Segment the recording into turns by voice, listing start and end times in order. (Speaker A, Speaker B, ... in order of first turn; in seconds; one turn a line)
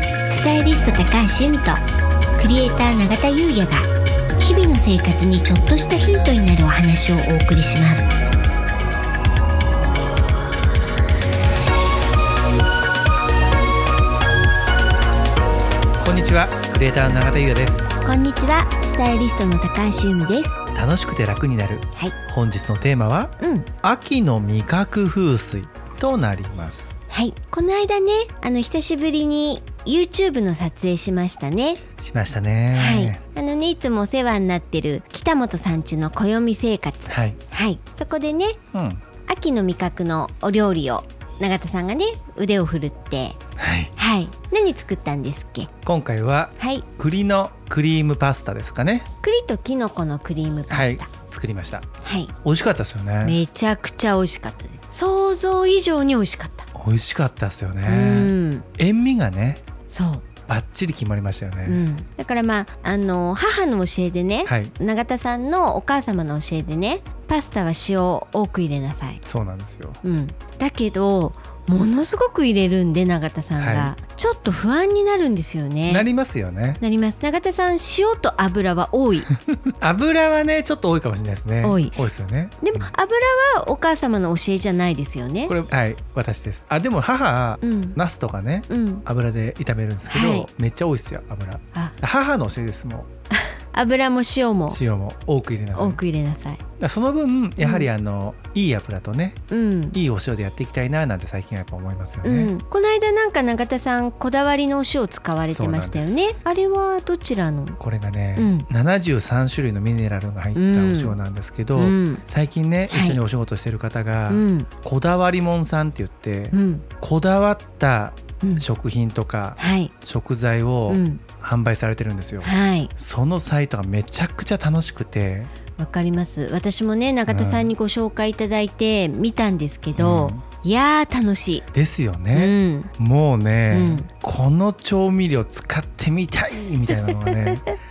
Speaker A: 0.3-1.8
Speaker A: 2.4-8.1
Speaker B: 16.0-17.9
Speaker A: 18.0-20.6
Speaker B: 20.7-26.9
Speaker A: 23.4-23.7
Speaker A: 27.1-31.8
Speaker B: 32.0-33.2
Speaker A: 32.7-38.6
Speaker B: 37.1-37.4
Speaker B: 38.7-39.0
Speaker A: 39.2-43.4
Speaker B: 43.6-43.9
Speaker A: 44.0-45.7
Speaker B: 45.9-49.1
Speaker A: 46.6-46.9
Speaker A: 49.2-51.1
Speaker B: 50.7-51.9
Speaker A: 52.0-52.3
Speaker B: 52.4-53.4
Speaker A: 53.2-56.7
Speaker B: 56.7-59.6
Speaker A: 57.9-58.7
Speaker A: 59.9-60.2
Speaker B: 60.5-61.9
Speaker A: 61.6-69.2
Speaker B: 64.5-64.7
Speaker B: 69.2-70.0
Speaker A: 70.0-76.0
Speaker B: 73.6-73.9
Speaker B: 75.9-76.8
Speaker A: 76.8-79.3
Speaker B: 79.5-82.9
Speaker A: 81.6-82.0
Speaker A: 82.6-85.5
Speaker B: 85.5-93.1
Speaker A: 87.6-88.0
Speaker A: 88.7-89.0
Speaker A: 90.1-90.5
Speaker A: 93.7-94.8
Speaker B: 94.7-96.0
Speaker A: 95.7-96.6
Speaker B: 96.8-99.4
Speaker A: 97.6-97.9
Speaker A: 99.5-100.0
Speaker B: 99.9-102.5
Speaker A: 102.2-107.8
Speaker B: 105.5-106.3
Speaker B: 107.8-125.5
Speaker A: 108.3-108.7
Speaker A: 110.5-111.2
Speaker A: 111.8-112.2
Speaker A: 112.9-113.2
Speaker A: 114.3-114.7
Speaker A: 116.5-116.8
Speaker A: 119.6-119.9
Speaker A: 120.9-121.2
Speaker A: 122.4-122.9
Speaker A: 125.8-131.6
Speaker B: 127.3-127.7
Speaker B: 129.9-130.4
Speaker B: 131.7-137.6
Speaker A: 132.3-132.9
Speaker A: 133.7-134.1
Speaker A: 136.9-137.6